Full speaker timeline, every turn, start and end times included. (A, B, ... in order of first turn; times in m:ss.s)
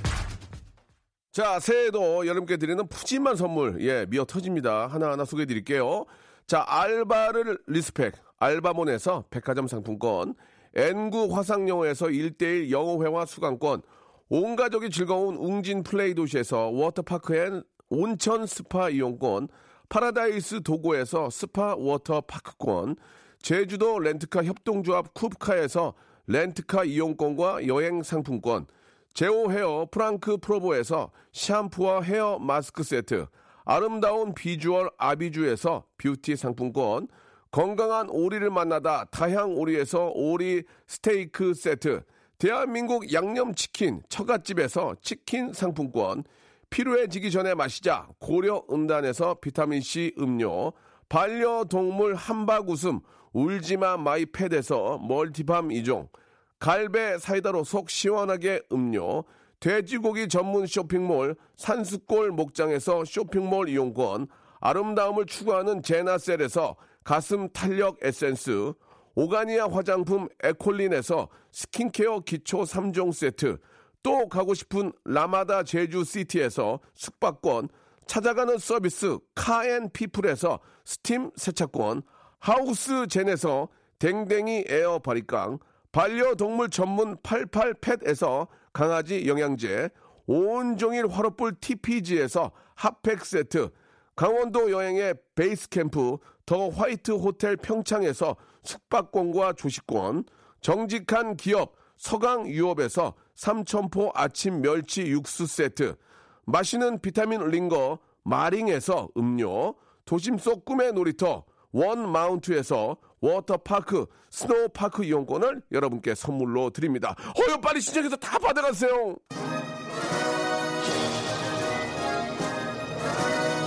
0:01.3-1:59.2 A